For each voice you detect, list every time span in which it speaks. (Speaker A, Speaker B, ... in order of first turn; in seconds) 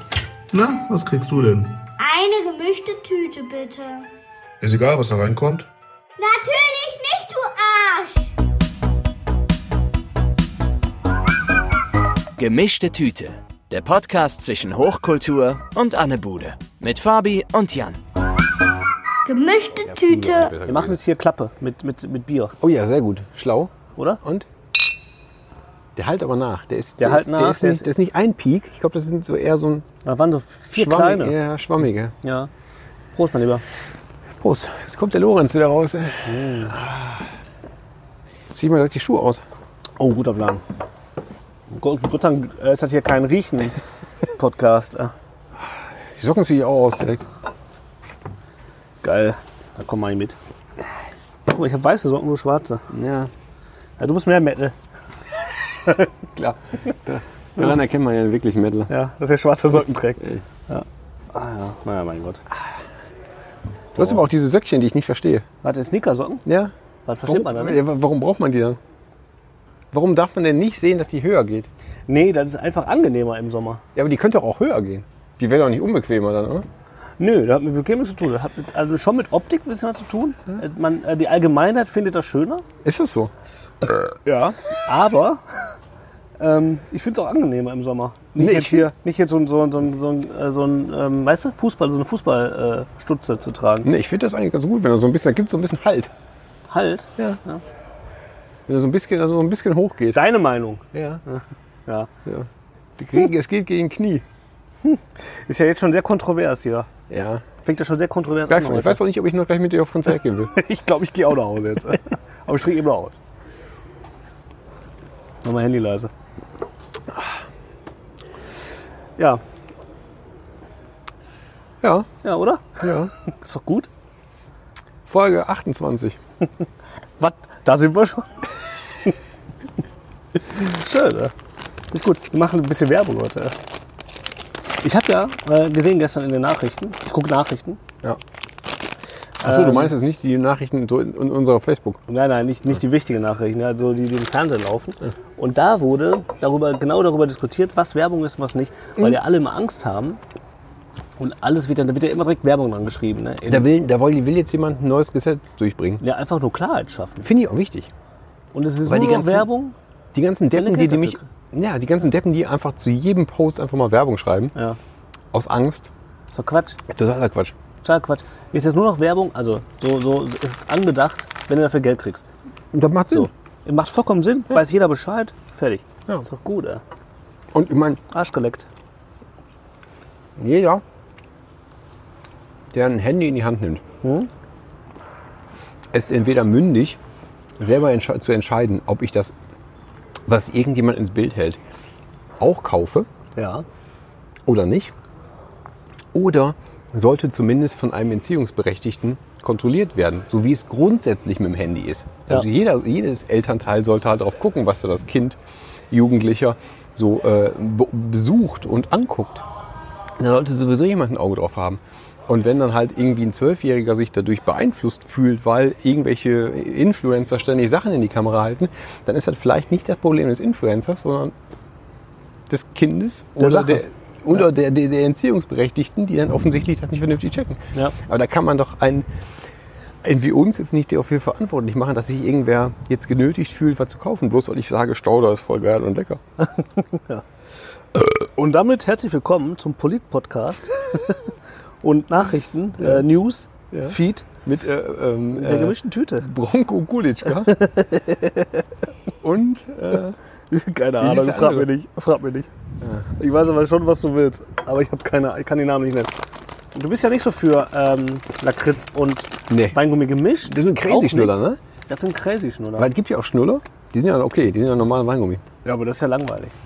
Speaker A: 0.5-1.8, 4.6-5.7
Speaker B: 2.0-4.1, 6.2-8.3, 19.2-20.5
Speaker C: 12.4-18.0
Speaker D: 19.8-21.0, 22.6-24.5, 25.9-29.9, 30.7-32.1, 34.4-37.3, 38.5-39.4, 45.6-47.2, 52.9-53.3, 56.3-58.9, 64.0-65.4, 66.4-66.7, 67.2-68.8, 69.9-71.7, 73.9-76.7, 82.8-83.3, 88.3-88.9, 93.8-96.1, 98.7-100.2, 100.9-101.2, 102.2-104.2, 107.1-107.4, 108.5-110.5, 121.8-122.1, 122.8-123.1, 125.1-126.2, 139.4-142.0, 153.5-156.0, 157.2-157.9, 158.8-159.5, 160.1-164.5, 165.3-165.9, 166.9-167.5, 172.7-173.3, 177.5-178.0, 180.4-180.8, 182.7-183.8, 185.9-187.0, 187.6-189.3, 190.2-191.6, 192.4-193.1, 194.4-194.9, 196.1-205.4, 205.9-209.4, 210.2-221.3, 222.5-229.1, 230.0-236.2, 243.7-247.6, 249.2-250.2, 251.0-251.7, 252.8-253.1, 259.5-259.8, 260.4-261.6, 262.8-265.4
Speaker E: 20.6-22.6, 27.0-27.9, 30.0-31.4, 32.2-32.5, 33.1-33.6, 36.2-36.8, 40.0-40.6, 41.7-43.8, 44.3-45.1, 49.0-50.4, 51.5-52.9, 54.0-54.7, 58.9-62.4, 65.6-66.4, 67.0-67.8, 72.1-73.8, 77.2-82.6, 84.1-85.7, 86.4-93.9, 96.7-97.6, 100.1-102.1, 104.8-106.9, 107.6-109.0, 110.5-113.2, 115.4-116.1, 122.2-123.9, 127.2-128.5, 130.5-131.3, 131.9-133.5, 134.8-137.8, 139.4-139.9, 142.1-150.2, 151.2-153.7, 156.0-157.3, 158.5-159.8, 160.5-161.2, 166.3-166.8, 167.8-172.2, 173.1-176.8, 178.1-178.7, 184.0-184.3, 193.3-193.6, 223.4-223.8, 236.4-237.2, 237.9-241.2, 241.8-244.3, 245.3-246.3, 247.5-248.6, 250.5-252.5, 253.2-256.1, 256.7-262.9, 265.6-266.5